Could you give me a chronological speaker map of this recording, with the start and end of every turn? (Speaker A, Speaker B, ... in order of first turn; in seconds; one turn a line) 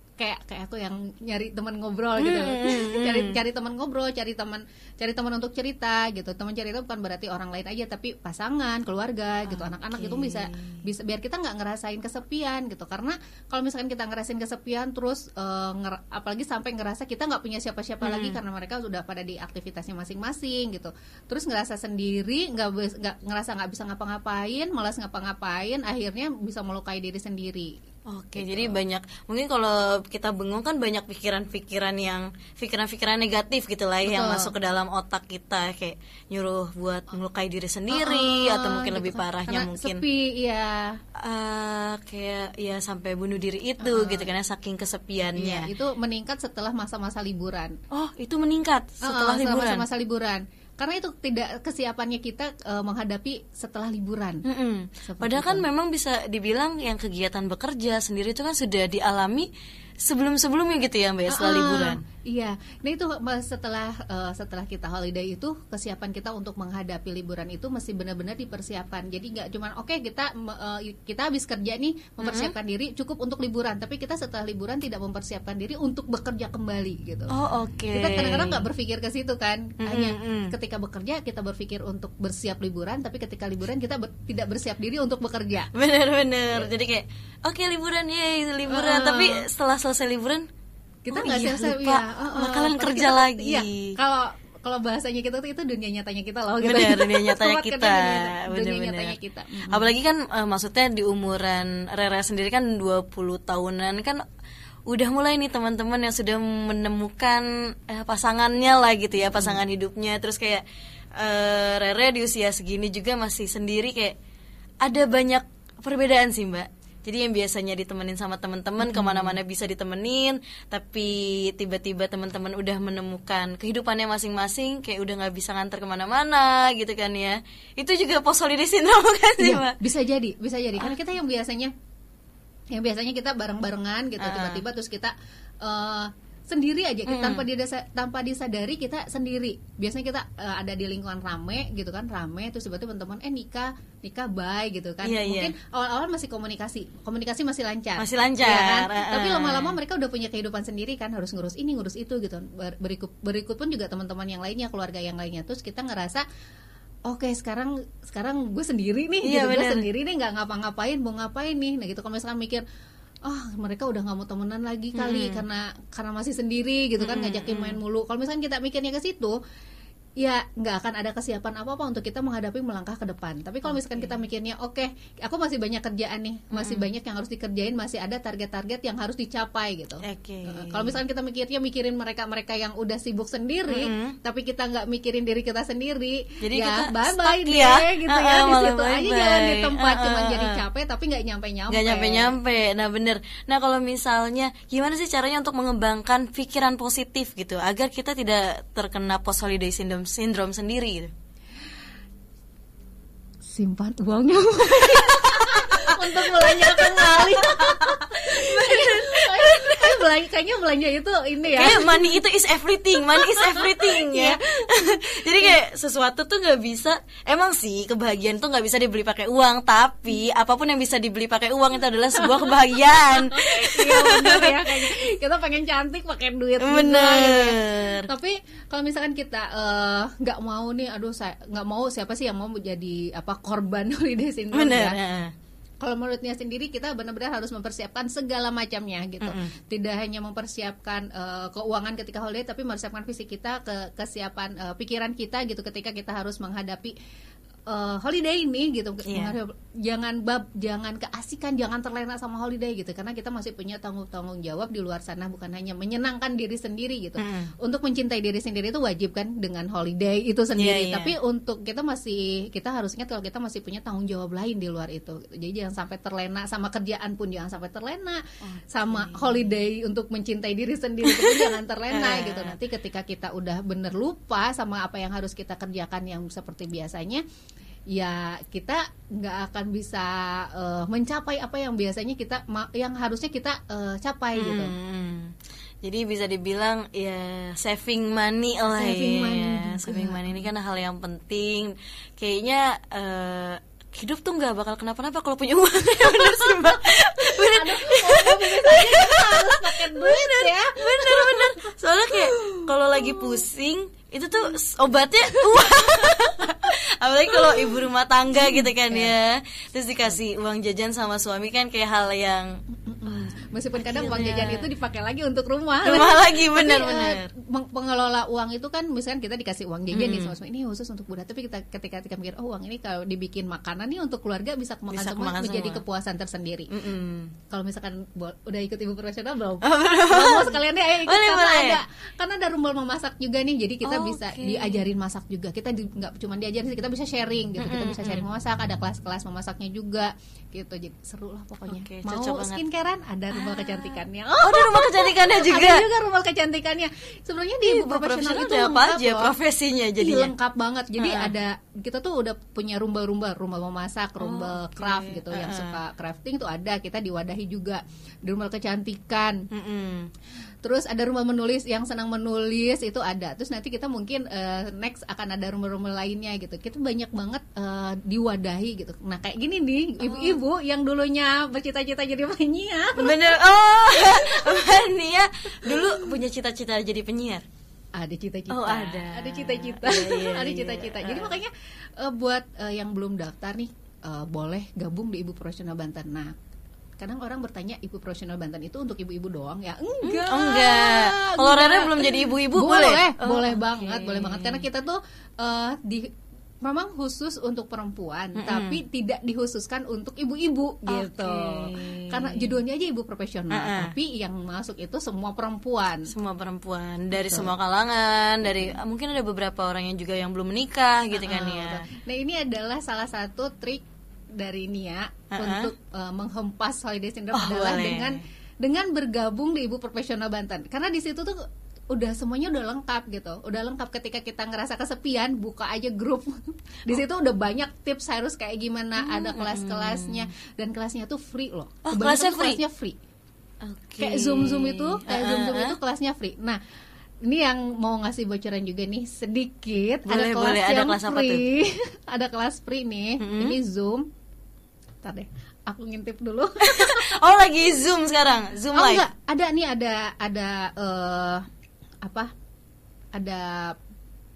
Speaker A: 0.2-27.8
Speaker B: 2.2-3.4
Speaker B: 9.5-10.8
Speaker B: 18.0-18.4
Speaker B: 28.1-40.0
Speaker A: 28.4-28.8
Speaker A: 34.0-34.5
Speaker A: 37.9-41.0
Speaker B: 41.2-45.7
Speaker A: 43.8-44.3
Speaker A: 45.4-47.8
Speaker B: 47.9-49.9
Speaker A: 49.0-54.4
Speaker B: 54.5-59.5
Speaker A: 55.0-55.6
Speaker B: 60.0-62.0
Speaker A: 61.3-77.3
Speaker B: 72.2-72.5
Speaker B: 77.3-78.6
Speaker A: 77.9-85.7
Speaker B: 79.8-80.5
Speaker B: 85.7-90.5
Speaker A: 88.7-89.5
Speaker A: 91.0-99.9
Speaker B: 91.1-94.0
Speaker B: 96.6-99.2
Speaker B: 99.7-104.2
Speaker B: 104.9-110.6
Speaker A: 109.2-109.6
Speaker B: 111.2-114.2
Speaker B: 114.8-129.8
Speaker A: 118.8-119.4
Speaker A: 129.4-131.7
Speaker A: 132.7-156.2
Speaker B: 134.2-134.6
Speaker B: 137.1-137.5
Speaker B: 145.0-145.5
Speaker B: 148.0-149.7
Speaker A: 157.1-162.6
Speaker B: 159.2-159.9
Speaker A: 163.2-169.4
Speaker B: 164.9-165.4
Speaker B: 167.0-167.8
Speaker A: 170.2-192.3
Speaker B: 173.7-174.1
Speaker B: 176.5-176.9
Speaker B: 180.0-181.0
Speaker B: 183.7-184.2
Speaker B: 186.4-190.6
Speaker B: 191.7-201.1
Speaker A: 203.4-211.9
Speaker B: 204.7-209.9
Speaker B: 211.4-224.8
Speaker A: 213.1-214.6
Speaker A: 215.2-215.6
Speaker A: 222.2-235.0
Speaker B: 226.6-228.1
Speaker B: 234.5-235.3
Speaker A: 235.8-246.9
Speaker B: 239.2-239.6
Speaker A: 247.7-277.2
Speaker B: 249.1-249.3
Speaker B: 257.2-257.5
Speaker B: 260.6-261.1
Speaker B: 268.4-269.5
Speaker B: 271.0-272.6
Speaker A: 277.9-284.7
Speaker B: 284.4-314.7
Speaker A: 288.7-290.4
Speaker A: 296.1-303.4
Speaker A: 305.5-306.4
Speaker A: 307.3-307.7
Speaker A: 308.4-309.1
Speaker A: 312.9-326.7
Speaker B: 315.8-317.3
Speaker B: 319.9-320.3
Speaker B: 324.9-325.8
Speaker B: 326.7-327.3
Speaker A: 327.5-349.3
Speaker B: 329.6-330.6
Speaker B: 331.1-331.8
Speaker B: 333.9-334.8
Speaker B: 337.6-338.3
Speaker B: 341.7-342.6
Speaker B: 343.3-345.9
Speaker B: 347.6-350.3
Speaker A: 350.0-359.4
Speaker B: 351.0-351.3
Speaker B: 354.2-355.8
Speaker B: 359.5-360.1
Speaker A: 360.6-373.4
Speaker B: 370.0-370.4
Speaker B: 373.0-377.4
Speaker A: 373.9-374.6
Speaker A: 375.6-376.1
Speaker A: 377.9-386.3
Speaker B: 378.5-381.4
Speaker A: 387.0-406.1
Speaker B: 390.0-394.6
Speaker B: 398.4-398.8
Speaker B: 400.9-402.5
Speaker B: 403.5-403.9
Speaker B: 406.1-411.9
Speaker A: 407.1-407.5
Speaker A: 408.5-408.8
Speaker A: 411.1-433.0
Speaker B: 415.3-415.7
Speaker B: 417.3-418.2
Speaker B: 429.0-430.3
Speaker B: 431.9-432.6
Speaker B: 433.6-435.8
Speaker A: 434.0-436.6
Speaker A: 437.2-444.1
Speaker B: 440.1-441.5
Speaker B: 443.2-443.6
Speaker A: 445.0-447.2
Speaker B: 446.6-449.1
Speaker A: 448.7-451.5
Speaker A: 452.0-452.3
Speaker A: 453.1-453.8